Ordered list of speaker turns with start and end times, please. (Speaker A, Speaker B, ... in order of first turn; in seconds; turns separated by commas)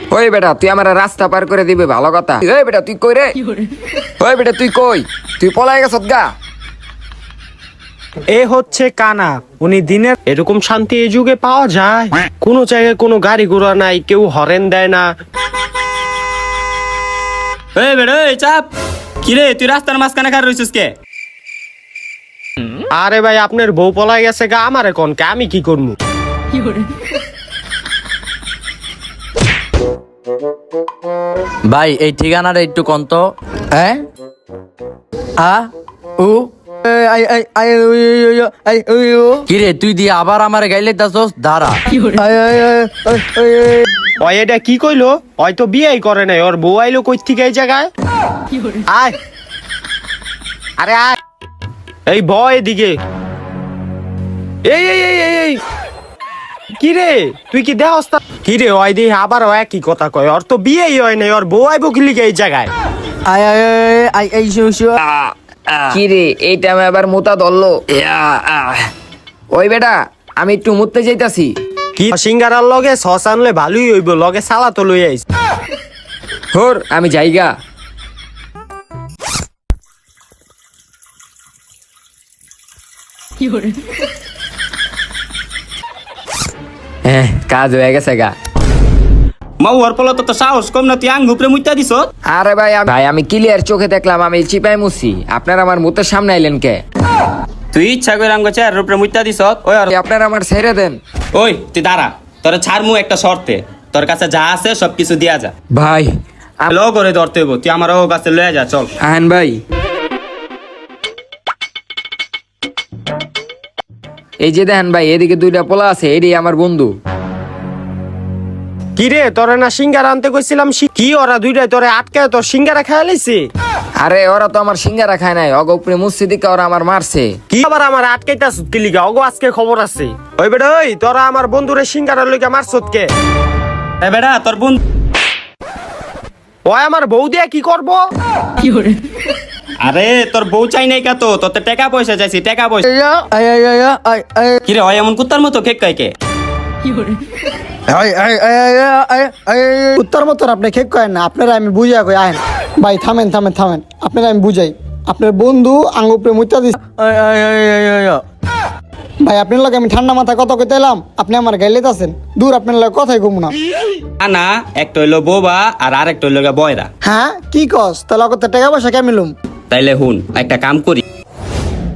Speaker A: 0.1-3.3, Speaker A: 4.2-6.2, Speaker B: 8.3-15.0, Speaker C: 17.8-18.7, Speaker C: 19.2-20.9, Speaker B: 22.9-25.9, Speaker D: 31.6-34.0, Speaker D: 35.4-43.9, Speaker B: 44.2-47.9, Speaker B: 48.9-49.1, Speaker B: 50.8-51.2, Speaker B: 52.1-53.0, Speaker B: 54.6-55.6, Speaker B: 56.8-62.7, Speaker D: 63.3-65.0, Speaker A: 65.9-68.8, Speaker A: 69.5-71.5, Speaker B: 72.0-75.2, Speaker A: 76.5-77.5, Speaker A: 87.1-88.3, Speaker C: 89.6-92.1, Speaker A: 92.3-96.8, Speaker C: 97.7-99.9, Speaker A: 99.9-101.0, Speaker C: 101.3-105.5, Speaker A: 105.8-106.1, Speaker C: 106.7-108.9, Speaker A: 109.0-109.6, Speaker A: 114.4-116.9, Speaker B: 119.0-123.5, Speaker A: 124.0-127.4, Speaker B: 127.5-133.1, Speaker C: 134.0-134.8, Speaker B: 136.7-138.0, Speaker C: 139.8-142.8, Speaker D: 142.8-144.6, Speaker C: 144.7-146.1, Speaker D: 147.9-150.0, Speaker E: 150.0-156.7, Speaker D: 156.8-158.2, Speaker E: 159.2-163.5, Speaker C: 164.2-166.9, Speaker E: 167.0-169.3, Speaker C: 169.7-171.0